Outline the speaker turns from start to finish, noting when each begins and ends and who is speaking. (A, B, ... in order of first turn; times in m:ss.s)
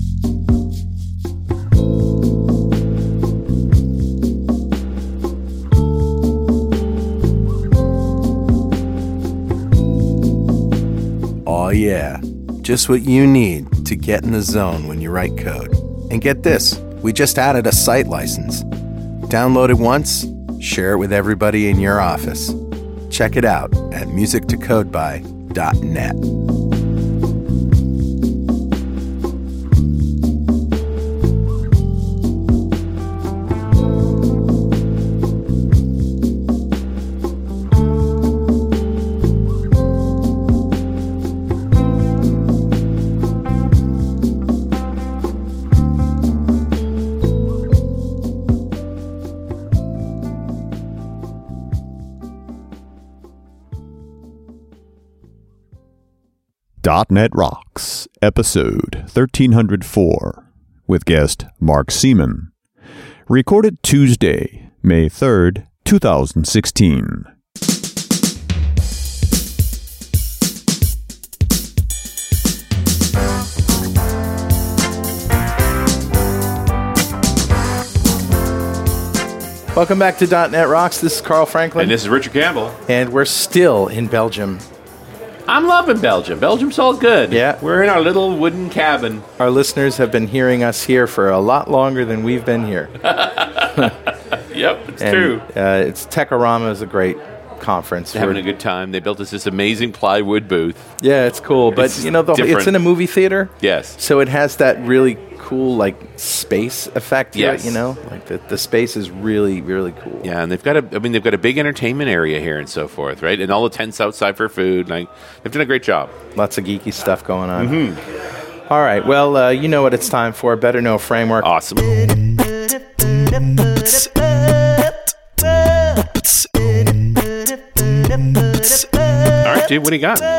0:11.5-0:18.6 A
0:19.3-0:22.6 A
0:23.1-0:26.2 A
0:56.8-1:02.5 B
1:03.3-1:07.3 B
1:19.7-1:22.0 A
1:21.8-1:22.8 C
1:22.9-1:24.6 A
1:25.5-1:29.3 C
1:27.3-1:27.6 A
1:29.4-1:33.0 A
1:33.0-1:35.4 C
1:35.0-1:38.4 A
1:38.1-1:40.9 C
1:41.0-1:50.3 A
1:41.8-1:42.8 C
1:43.6-1:44.0 C
1:47.3-1:47.8 C
1:50.2-1:56.2 C
1:56.4-1:58.0 A
1:57.6-1:58.0 C
1:58.7-2:01.5 A
2:01.4-2:02.2 C
2:09.4-2:10.3 C